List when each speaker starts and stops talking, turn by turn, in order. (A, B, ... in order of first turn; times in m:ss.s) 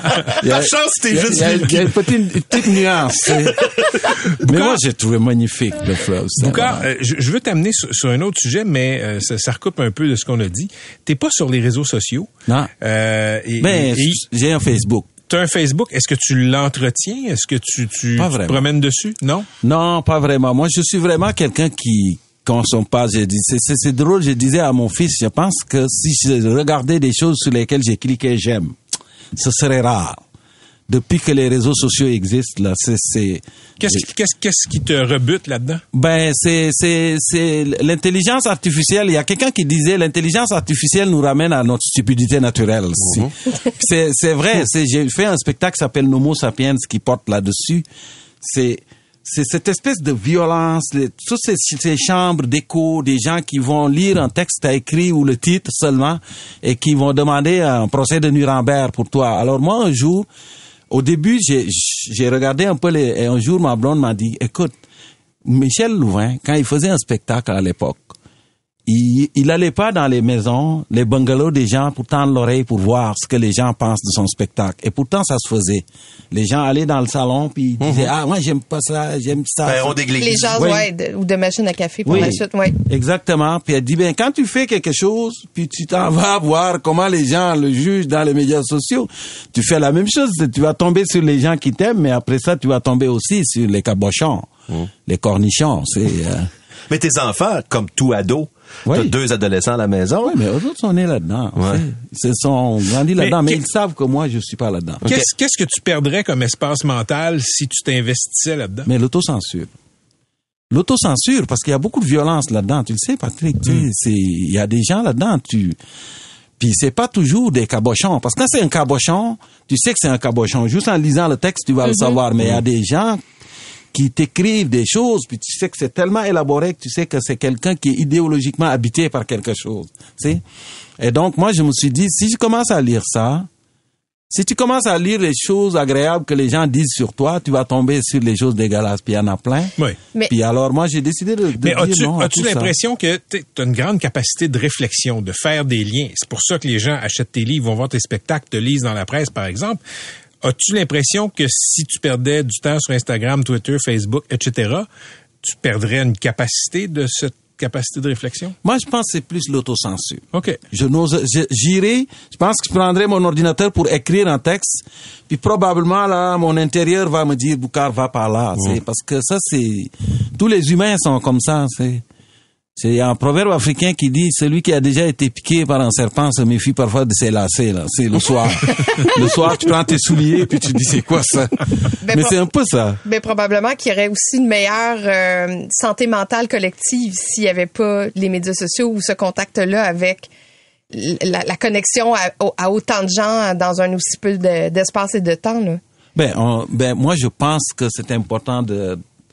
0:00.3-0:02.0 A
0:00.4-0:03.7 B
0:04.4-0:06.8 B
0:04.5-0:04.8 C
0:06.4-0:12.3 C
0:12.8-0:14.2 C
0:13.6-0:15.1 B
0:15.3-0:19.5 C
0:18.2-0:18.6 B
0:19.6-0:28.8 B
0:29.4-0:30.2 B
0:30.9-0:34.0 B
0:33.8-0:35.8 C
0:35.9-0:47.9 B
0:48.4-1:00.3 B
1:00.9-1:04.7 B
1:05.4-1:08.1 B
1:08.9-1:20.0 B
1:17.8-1:18.1 A
1:19.6-1:20.7 A
1:20.2-1:22.8 D
1:20.6-1:20.9 B
1:22.0-1:36.5 B
1:36.9-1:40.4 A
1:38.9-1:39.1 B
1:40.2-1:45.0 B
1:41.6-1:41.9 A
1:43.2-1:43.6 C
1:45.0-1:48.9 C
1:48.9-1:49.7 B
1:50.7-1:55.8 B
1:56.6-2:03.2 B
2:03.9-2:10.4 B
2:11.0-2:13.5 B
2:14.3-2:19.7 B
2:20.3-2:22.7 B
2:21.6-2:29.8 C
2:30.4-2:34.9 C
2:35.4-2:38.6 C
2:38.6-2:52.0 B
2:40.3-2:40.6 C
2:52.8-3:03.0 B
3:02.0-3:02.4 D
3:03.0-3:10.3 D
3:10.9-3:15.8 D
3:16.1-3:19.0 B